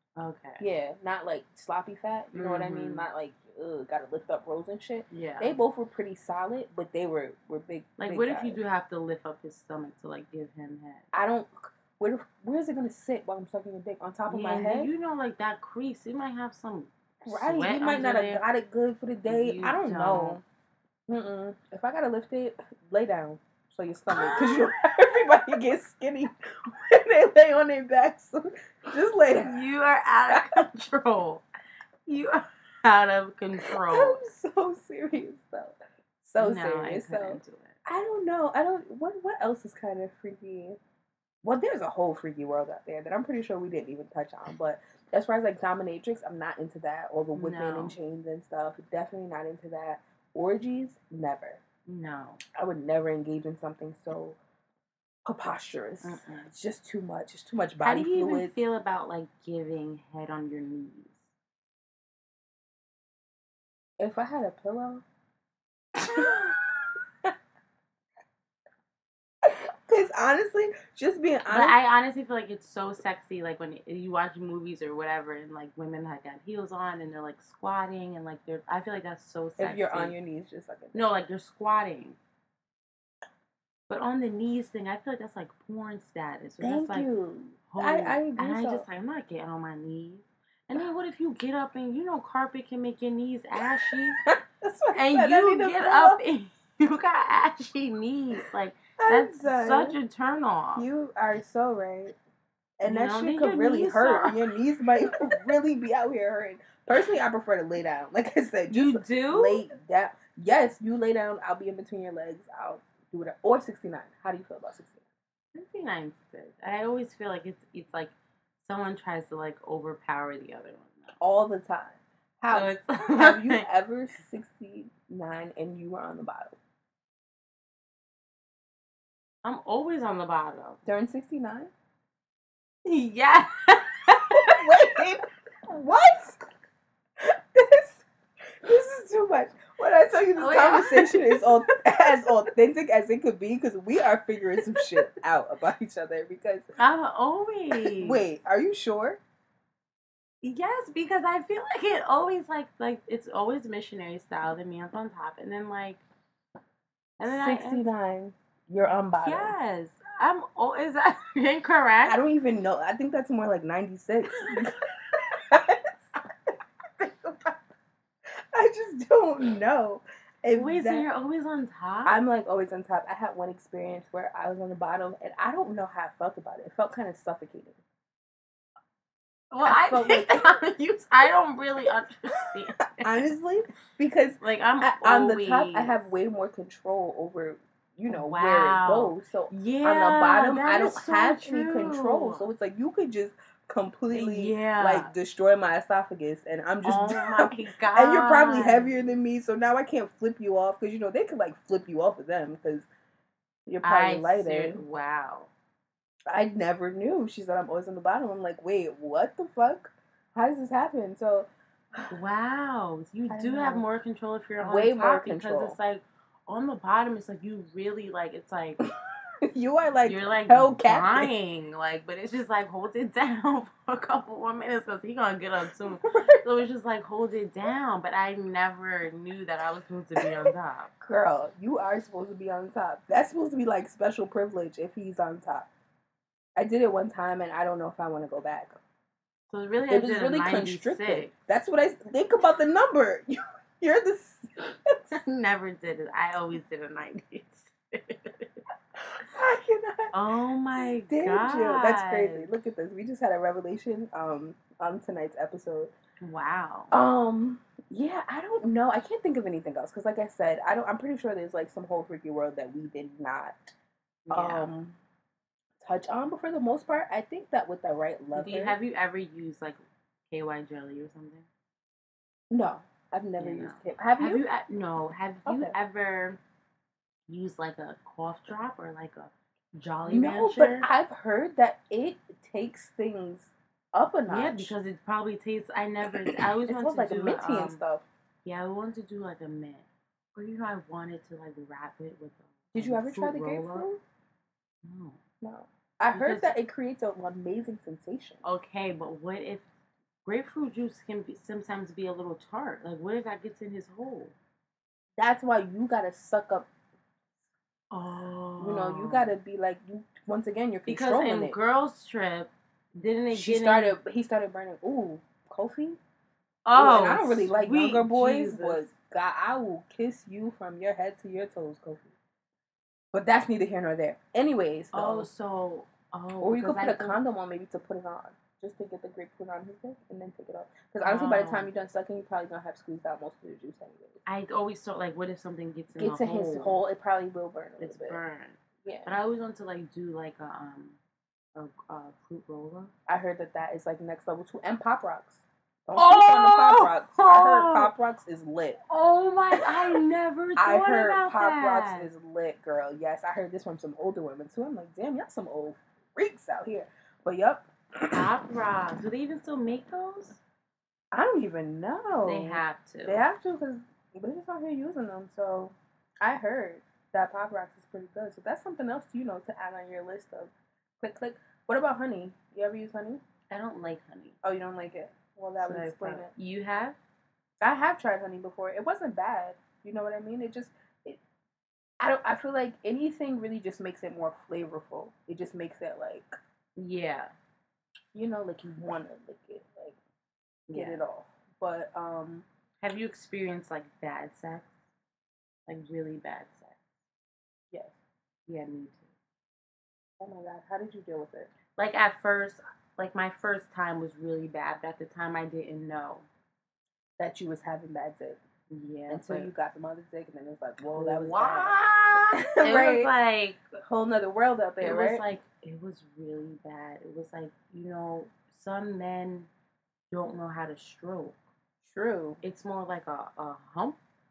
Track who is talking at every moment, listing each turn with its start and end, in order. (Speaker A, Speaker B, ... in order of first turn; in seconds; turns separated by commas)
Speaker A: 0.2-0.7, Speaker B: 0.6-8.6, Speaker A: 2.3-3.1, Speaker A: 5.1-5.6, Speaker A: 8.0-11.1, Speaker B: 11.1-14.9, Speaker A: 14.3-18.4, Speaker B: 17.2-20.4, Speaker A: 19.3-20.4, Speaker B: 21.1-29.6, Speaker A: 24.1-24.7, Speaker A: 29.4-31.4, Speaker B: 30.3-30.6, Speaker A: 32.1-34.2, Speaker B: 33.6-40.8, Speaker A: 36.4-37.8, Speaker B: 41.4-51.6, Speaker A: 47.4-48.0, Speaker A: 51.9-52.4, Speaker B: 52.6-54.4, Speaker B: 55.3-58.6, Speaker A: 56.0-56.5, Speaker A: 57.8-61.2, Speaker B: 64.0-65.0, Speaker B: 66.1-67.3, Speaker B: 69.4-71.8, Speaker A: 71.5-80.2, Speaker B: 79.6-81.0, Speaker A: 80.9-82.2, Speaker A: 83.9-87.1, Speaker B: 86.6-88.9, Speaker A: 87.7-94.2, Speaker B: 93.6-96.2, Speaker A: 94.9-100.9, Speaker B: 99.0-100.0, Speaker B: 100.8-102.2, Speaker B: 102.8-115.0, Speaker A: 102.8-104.5, Speaker A: 105.1-105.5, Speaker A: 108.7-109.7, Speaker A: 115.5-121.2, Speaker B: 121.2-126.6, Speaker A: 122.5-123.7, Speaker A: 129.4-130.8, Speaker B: 130.8-131.7, Speaker A: 132.8-134.9, Speaker B: 134.4-136.4, Speaker B: 137.2-138.1, Speaker B: 138.6-146.7, Speaker A: 140.4-142.1, Speaker A: 144.6-144.9, Speaker A: 146.8-148.2, Speaker B: 147.8-149.2, Speaker A: 150.4-156.0, Speaker A: 157.2-157.9, Speaker B: 157.2-159.5, Speaker A: 159.2-162.2, Speaker B: 162.1-164.8, Speaker B: 165.4-165.8, Speaker A: 167.0-167.5, Speaker B: 168.5-171.1, Speaker A: 170.6-172.2, Speaker B: 172.1-177.8, Speaker A: 179.5-183.2, Speaker B: 179.7-180.6, Speaker B: 183.0-202.9, Speaker A: 184.4-186.1, Speaker A: 188.1-192.5, Speaker A: 194.1-195.1, Speaker A: 196.8-198.9, Speaker B: 203.7-204.8, Speaker A: 203.8-205.5, Speaker B: 206.3-212.1, Speaker A: 212.1-218.8, Speaker B: 213.3-213.9, Speaker B: 214.6-215.8, Speaker B: 219.5-221.3, Speaker A: 220.0-230.9, Speaker B: 226.1-226.4, Speaker B: 230.2-230.5, Speaker B: 231.0-235.7, Speaker B: 236.6-238.8, Speaker A: 239.5-241.3, Speaker B: 239.9-245.0, Speaker A: 245.1-248.6, Speaker B: 249.2-250.1, Speaker A: 250.1-252.5, Speaker B: 250.7-255.9, Speaker A: 256.2-256.9, Speaker B: 256.9-263.7, Speaker A: 264.3-264.7, Speaker B: 264.3-265.0, Speaker B: 265.8-268.8, Speaker A: 268.4-271.5, Speaker B: 272.5-274.4, Speaker A: 273.4-276.4, Speaker B: 275.5-275.7, Speaker A: 277.3-280.9, Speaker B: 280.1-284.7, Speaker A: 284.3-287.8, Speaker B: 286.1-288.1, Speaker A: 288.4-293.9, Speaker B: 292.7-294.0, Speaker A: 294.8-295.2, Speaker B: 295.4-298.4, Speaker A: 296.1-296.6, Speaker A: 298.4-299.7, Speaker A: 300.2-304.4, Speaker B: 305.2-306.7, Speaker A: 307.9-309.3, Speaker B: 308.6-311.6, Speaker A: 310.9-314.0, Speaker B: 313.3-316.0, Speaker A: 316.6-318.9, Speaker B: 316.7-322.1, Speaker B: 323.1-325.3, Speaker A: 324.9-327.2, Speaker B: 326.4-334.2, Speaker A: 331.0-331.7, Speaker A: 334.2-336.8, Speaker B: 336.0-338.2, Speaker A: 337.8-341.0, Speaker B: 338.8-339.1, Speaker A: 341.6-342.9, Speaker B: 343.1-348.8, Speaker A: 346.0-347.9, Speaker A: 348.9-352.1, Speaker B: 349.5-350.0, Speaker B: 350.6-358.3, Speaker A: 358.1-360.4, Speaker B: 361.1-373.2, Speaker A: 362.2-363.2, Speaker A: 373.5-374.4, Speaker B: 374.4-376.3, Speaker A: 375.6-377.0, Speaker B: 377.6-381.2, Speaker B: 382.0-386.3, Speaker A: 386.8-387.3, Speaker B: 388.1-390.0, Speaker A: 390.7-391.0, Speaker B: 390.7-392.5, Speaker A: 392.8-394.7, Speaker A: 395.7-396.8, Speaker B: 397.7-398.0, Speaker A: 398.5-399.1, Speaker B: 400.2-401.5, Speaker A: 401.7-406.3, Speaker B: 407.2-408.4, Speaker A: 408.7-409.5, Speaker B: 409.1-411.8, Speaker A: 410.9-413.6, Speaker B: 412.4-413.1, Speaker B: 413.9-415.2, Speaker A: 414.8-419.5, Speaker A: 420.1-421.4, Speaker B: 421.8-422.4, Speaker A: 422.4-424.0